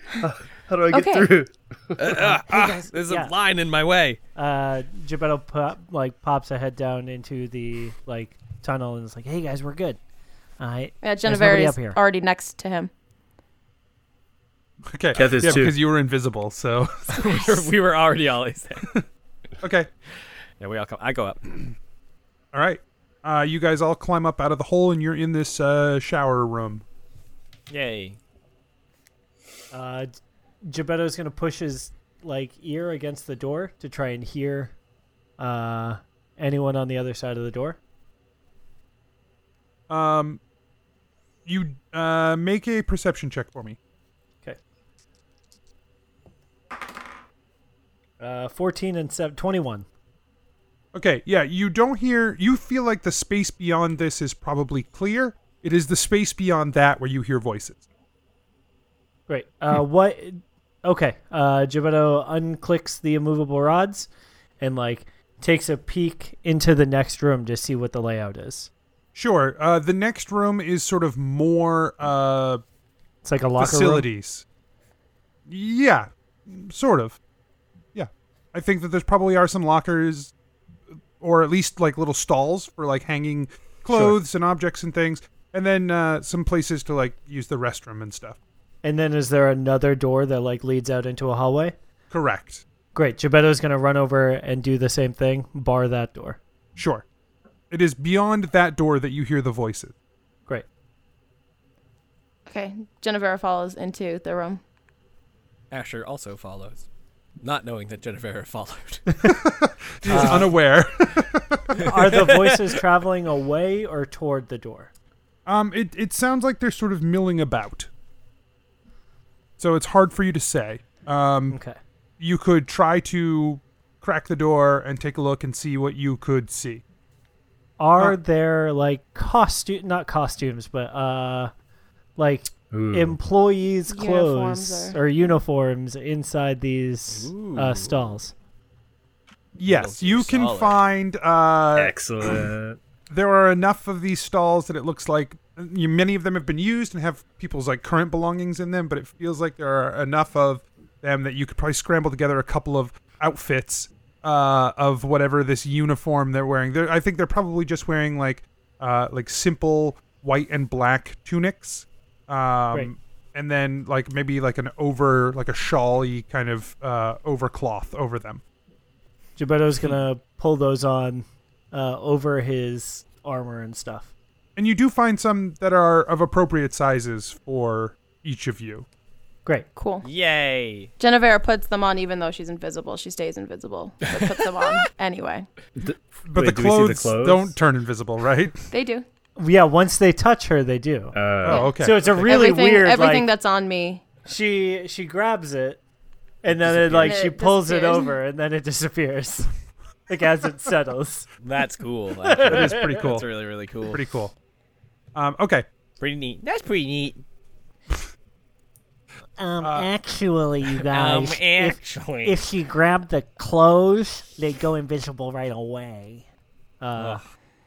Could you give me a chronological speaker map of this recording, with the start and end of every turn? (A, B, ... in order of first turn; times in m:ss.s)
0:00.2-0:02.1 A
0:00.9-0:01.3 B
0:02.0-0:04.2 C
0:02.2-0:03.3 D
0:04.4-0:10.0 D
0:10.6-0:12.0 D
0:11.0-0:12.9 B
0:14.9-0:17.5 E
0:15.1-0:15.8 A
0:17.1-0:18.9 C
0:19.6-0:19.9 E
0:20.6-0:21.6 C
0:22.5-0:26.8 E
0:27.7-0:28.2 C
0:29.7-0:30.1 D
0:30.6-0:34.7 D
0:35.4-0:37.8 D
0:39.9-0:40.4 E
0:41.4-0:43.8 E
0:48.2-0:49.8 D
0:50.9-0:57.8 E
0:59.3-1:04.1 D
1:04.6-1:08.7 D
1:09.1-1:12.6 E
1:13.2-1:14.0 D
1:13.6-1:14.4 E
1:15.5-1:17.2 E
1:17.9-1:20.3 E
1:21.2-1:28.4 E
1:28.8-1:31.7 D
1:32.1-1:32.6 E
1:32.9-1:36.4 D
1:36.8-1:37.0 E
1:37.7-1:39.9 E
1:42.5-1:44.6 B
1:45.7-1:46.8 C
1:47.4-1:49.1 C
1:49.3-1:52.0 E
1:50.1-1:50.6 D
1:50.1-1:50.4 C
1:51.8-1:52.7 C
1:51.8-1:54.9 D
1:55.4-1:57.9 E
1:59.6-2:01.6 E
2:01.5-2:01.8 D
2:02.2-2:06.8 E
2:07.8-2:11.5 D
2:12.2-2:18.3 D
2:12.7-2:13.2 A
2:13.9-2:15.4 B
2:17.1-2:18.1 C
2:19.6-2:22.0 E
2:19.6-2:20.8 C
2:21.7-2:22.8 A
2:23.1-2:48.4 E
2:49.4-2:54.1 D
2:54.6-2:58.8 E
2:59.8-3:00.1 B
3:00.0-3:00.9 C
3:01.0-3:05.5 B
3:04.2-3:04.7 C
3:05.8-3:07.6 A
3:06.2-3:08.7 E
3:08.7-3:09.0 B
3:09.4-3:11.2 D
3:11.1-3:11.7 A
3:11.4-3:12.2 E
3:11.5-3:14.1 B
3:11.7-3:13.3 D
3:14.2-3:15.8 D
3:16.4-3:19.5 D
3:16.5-3:17.2 C
3:17.0-3:18.2 B
3:20.1-3:21.3 D
3:21.4-3:24.0 C
3:22.2-3:23.0 D
3:22.4-3:23.3 E
3:23.8-3:24.3 E
3:25.1-3:25.6 E
3:26.0-3:27.2 C
3:29.4-3:36.2 D
3:29.6-3:29.9 E
3:30.8-3:32.4 C
3:36.8-3:37.2 D